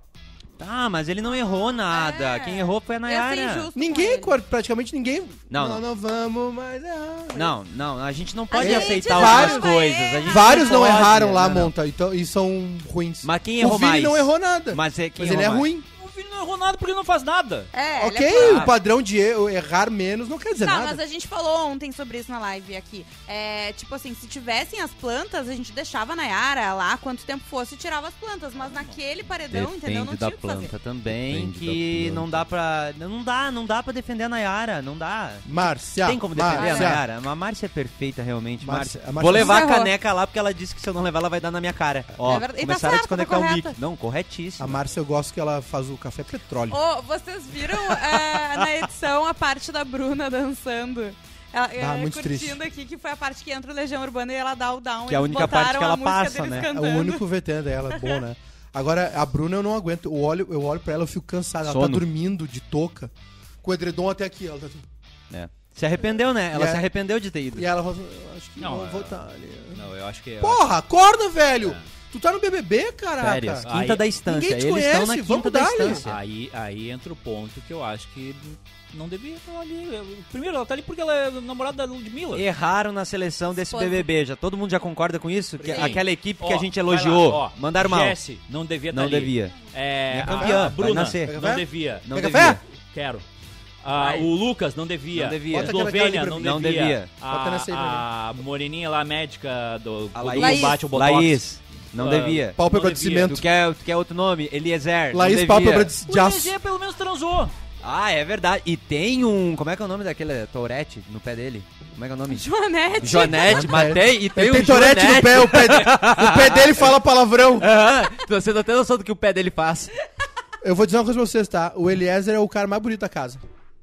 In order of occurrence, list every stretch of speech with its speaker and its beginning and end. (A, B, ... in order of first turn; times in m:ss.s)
0:00.6-0:03.7 A
0:01.2-0:04.4 B
0:03.7-0:07.5 C
0:05.5-0:05.8 A
0:07.3-0:11.7 A
0:08.5-0:11.0 B
0:08.6-0:09.7 C
0:10.2-0:15.8 C
0:13.2-0:15.7 A
0:16.0-0:17.7 D
0:17.7-0:18.7 B
0:18.0-0:21.0 C
0:18.4-0:18.7 D
0:20.6-0:30.7 B
0:28.6-0:29.0 D
0:29.5-0:44.8 A
0:31.3-0:32.2 C
0:31.6-0:32.2 D
0:35.4-0:37.0 C
0:36.5-0:36.9 B
0:38.6-0:39.7 C
0:39.3-0:39.9 B
0:42.3-0:43.8 B
0:44.6-0:46.8 C
0:46.7-0:57.2 B
0:51.8-0:52.6 C
0:55.1-0:56.7 A
0:56.6-1:03.1 C
0:58.0-0:58.2 B
1:01.6-1:02.1 A
1:03.6-1:04.9 C
1:05.3-1:07.7 A
1:06.5-1:06.8 C
1:07.5-1:09.8 C
1:08.6-1:09.2 D
1:09.7-1:10.6 D
1:10.4-1:13.7 C
1:13.2-1:16.1 A
1:13.6-1:14.1 D
1:14.2-1:16.1 C
1:15.9-1:22.4 D
1:22.3-1:28.2 A
1:23.7-1:24.1 B
1:25.6-1:32.1 D
1:25.6-1:26.0 B
1:28.9-1:29.6 A
1:30.1-1:31.4 A
1:30.3-1:32.6 C
1:32.0-1:32.6 A
1:32.9-1:33.2 D
1:33.8-1:41.4 D
1:34.0-1:34.2 B
1:35.1-1:37.1 A
1:35.5-1:36.3 C
1:37.3-1:38.1 C
1:40.2-1:42.6 A
1:40.4-1:40.8 B
1:42.0-1:43.4 D
1:42.6-1:43.5 C
1:43.2-1:45.9 A
1:45.1-1:46.5 C
1:46.1-1:47.5 D
1:47.8-1:56.9 A
1:52.3-1:53.7 B
1:53.4-1:57.7 C
1:57.6-1:59.9 A
2:00.6-2:03.4 C